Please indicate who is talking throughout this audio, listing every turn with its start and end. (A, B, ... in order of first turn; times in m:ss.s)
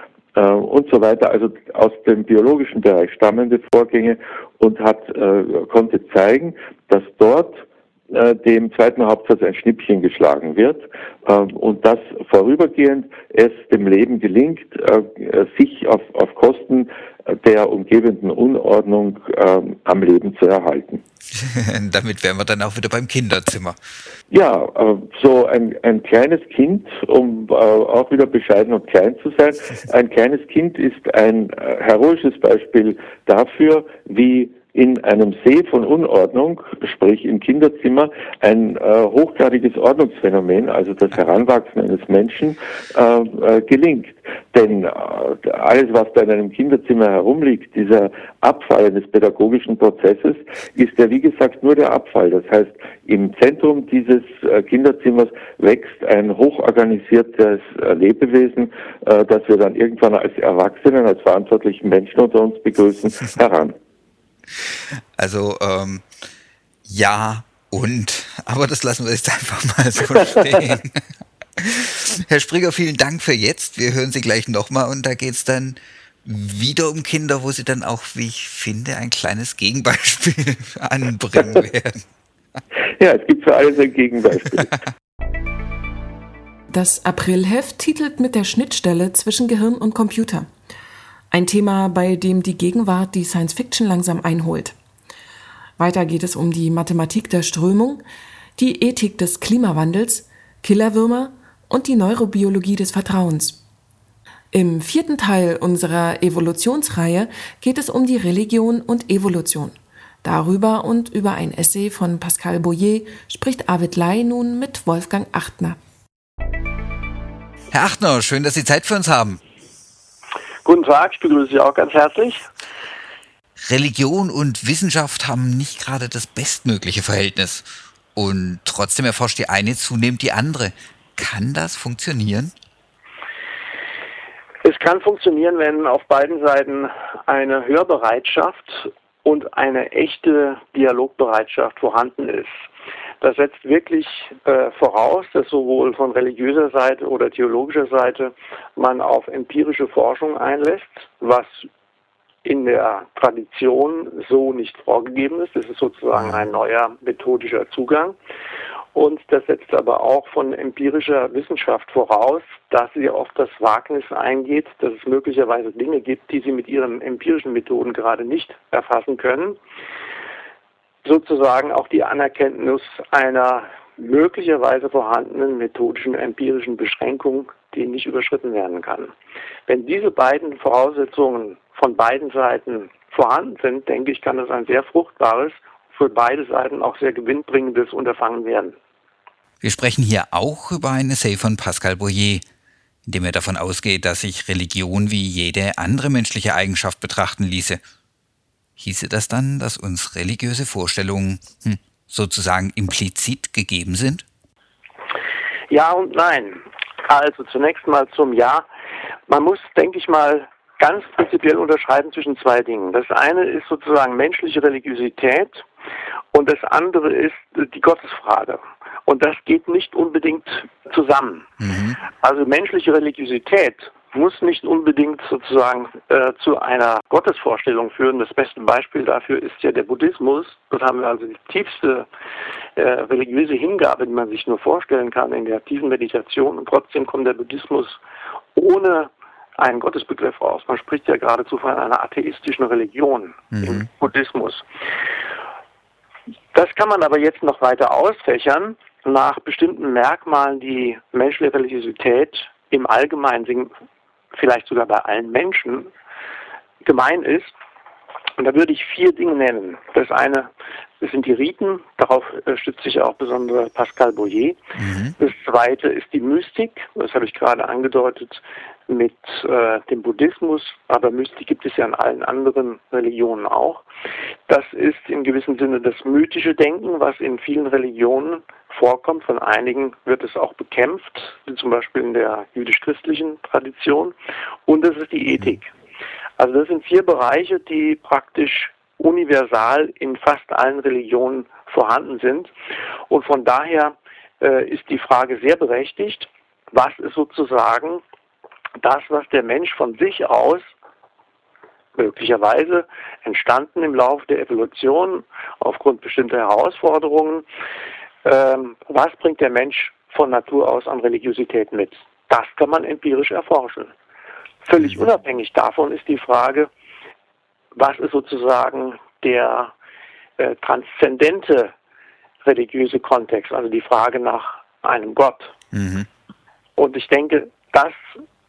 0:00.3-0:21.0 A
0:21.3-0:23.8 B
0:24.3-1:03.8 A
1:05.2-1:06.0 B
1:06.8-1:11.0 B
1:11.6-1:22.0 B
1:23.0-1:24.7 A
1:26.7-1:30.5 C
1:31.3-1:34.8 C
1:35.8-1:38.0 C
1:38.6-1:43.6 C
1:44.5-1:55.8 C
1:57.7-1:59.4 B
2:00.6-2:02.4 D
2:03.6-2:12.5 B
2:14.6-2:22.5 D
2:23.2-2:31.7 D
2:32.4-2:38.1 D
2:38.9-2:49.6 D
2:51.0-2:59.1 D
2:59.7-3:08.8 D
3:09.6-3:12.4 B
3:13.0-3:17.8 B
3:18.8-3:24.2 B
3:25.7-3:28.6 D
3:29.3-3:35.6 D
3:36.3-3:41.5 D
3:41.6-3:42.0 B
3:42.2-3:52.1 D
3:52.8-3:58.0 D
3:58.5-4:04.6 D
4:03.6-4:03.8 B
4:06.5-4:13.7 D
4:14.3-4:15.9 D
4:16.8-4:17.5 D
4:18.4-4:24.6 D
4:24.8-4:25.2 B
4:25.2-4:33.8 D
4:34.5-4:44.1 D
4:44.7-4:45.7 D
4:46.4-4:52.5 D
4:53.1-4:58.0 D
4:58.8-5:00.7 D
5:02.0-5:07.4 D
5:08.2-5:13.9 D
5:14.6-5:16.7 D
5:17.7-5:19.7 D
5:20.4-5:21.7 D
5:22.4-5:25.5 D
5:25.7-5:26.1 B
5:26.8-5:27.9 D